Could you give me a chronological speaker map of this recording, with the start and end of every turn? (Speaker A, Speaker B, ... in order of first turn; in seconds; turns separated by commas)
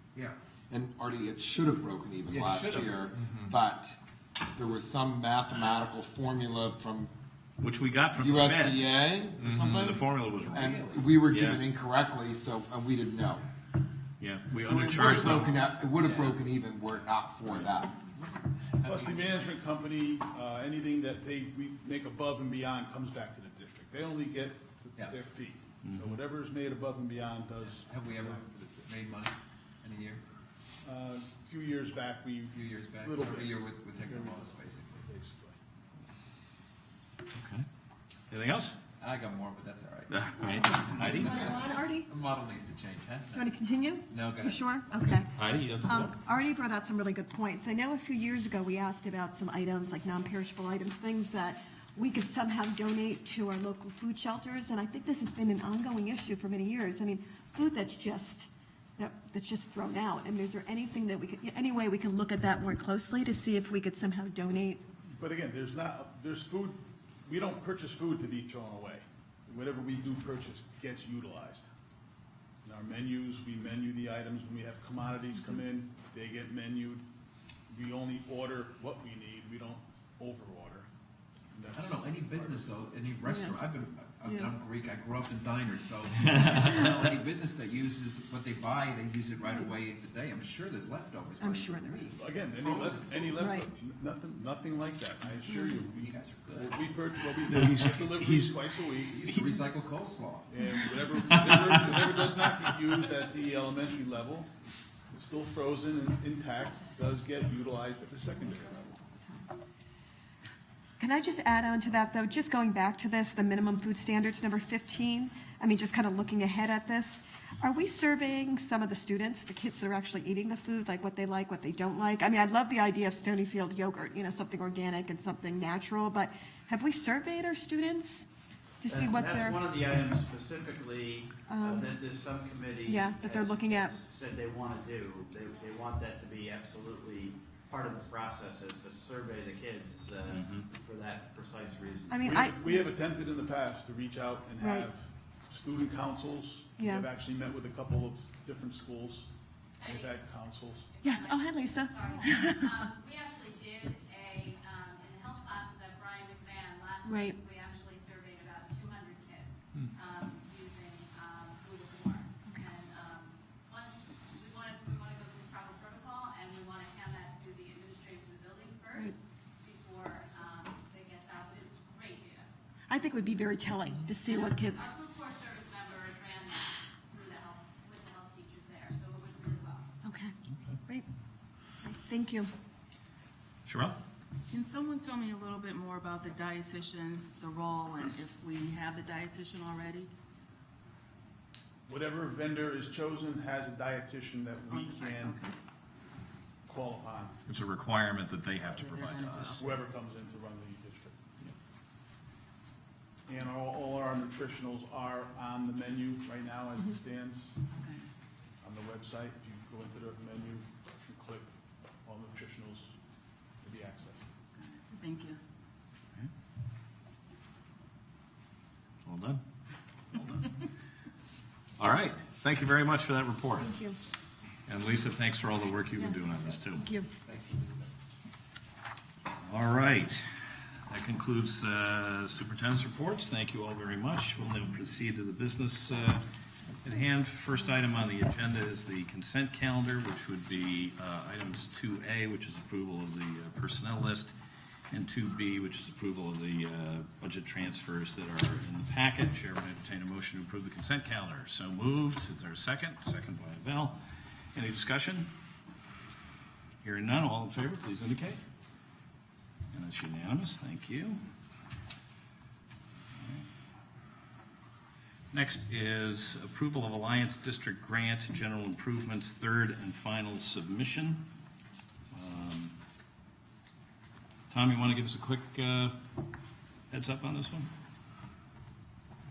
Speaker A: 0.7-4.0, Speaker B: 2.3-3.5, Speaker A: 4.5-7.1, Speaker C: 7.6-11.6, Speaker A: 8.1-10.0, Speaker B: 10.4-11.1, Speaker A: 10.5-13.4, Speaker C: 14.2-15.7, Speaker A: 14.6-17.9, Speaker B: 15.9-16.5, Speaker B: 17.4-19.6, Speaker D: 18.8-28.4, Speaker C: 25.8-26.1, Speaker B: 27.9-30.2, Speaker D: 30.8-35.6, Speaker B: 32.5-35.1, Speaker C: 37.3-37.6, Speaker C: 38.3-38.8, Speaker B: 39.0-43.5, Speaker C: 40.1-41.5, Speaker E: 40.5-42.1, Speaker E: 43.3-64.8, Speaker B: 44.1-45.2, Speaker C: 45.3-46.1, Speaker D: 65.1-71.7, Speaker D: 72.6-77.0, Speaker D: 77.7-80.9, Speaker D: 81.5-82.7, Speaker B: 81.7-93.5, Speaker E: 83.2-83.5, Speaker E: 91.4-92.2, Speaker D: 92.2-99.4, Speaker E: 93.4-93.7, Speaker E: 95.5-95.8, Speaker B: 95.8-96.8, Speaker C: 97.5-98.4, Speaker B: 99.0-100.6, Speaker D: 100.5-104.5, Speaker C: 101.3-101.8, Speaker D: 105.1-108.8, Speaker E: 106.9-107.1, Speaker E: 108.2-109.4, Speaker E: 111.0-128.3, Speaker E: 128.8-129.6, Speaker F: 128.8-142.4, Speaker E: 131.5-131.9, Speaker E: 132.8-133.9, Speaker C: 140.3-140.7, Speaker E: 142.1-142.8, Speaker D: 142.2-149.3, Speaker E: 144.6-144.9, Speaker E: 146.8-147.1, Speaker G: 149.8-150.2, Speaker D: 149.8-150.9, Speaker G: 150.9-172.5, Speaker E: 151.0-152.8, Speaker E: 157.0-157.4, Speaker E: 172.9-174.9, Speaker G: 174.2-179.9, Speaker E: 180.0-180.3, Speaker C: 180.5-180.8, Speaker E: 181.8-182.5, Speaker C: 183.7-184.0, Speaker H: 184.5-190.1, Speaker D: 191.9-195.4, Speaker H: 194.7-195.5, Speaker D: 196.7-197.3, Speaker C: 197.5-199.6, Speaker H: 198.7-199.6, Speaker D: 199.6-201.2, Speaker D: 203.3-207.5, Speaker H: 207.7-208.1, Speaker D: 208.6-211.5, Speaker D: 212.0-212.9, Speaker D: 213.6-214.2, Speaker H: 214.5-215.4, Speaker C: 219.0-219.4, Speaker C: 220.1-220.5, Speaker C: 221.8-223.7, Speaker E: 223.6-224.0, Speaker C: 224.7-226.9, Speaker E: 226.0-227.1, Speaker B: 227.2-227.9, Speaker C: 229.4-230.2, Speaker C: 230.9-236.2, Speaker C: 236.8-244.3, Speaker C: 244.9-254.0, Speaker C: 254.5-255.3, Speaker C: 256.8-258.4, Speaker C: 259.7-261.2, Speaker C: 263.1-263.4, Speaker C: 265.3-271.2, Speaker C: 272.1-272.7, Speaker C: 274.5-275.9, Speaker C: 276.9-277.7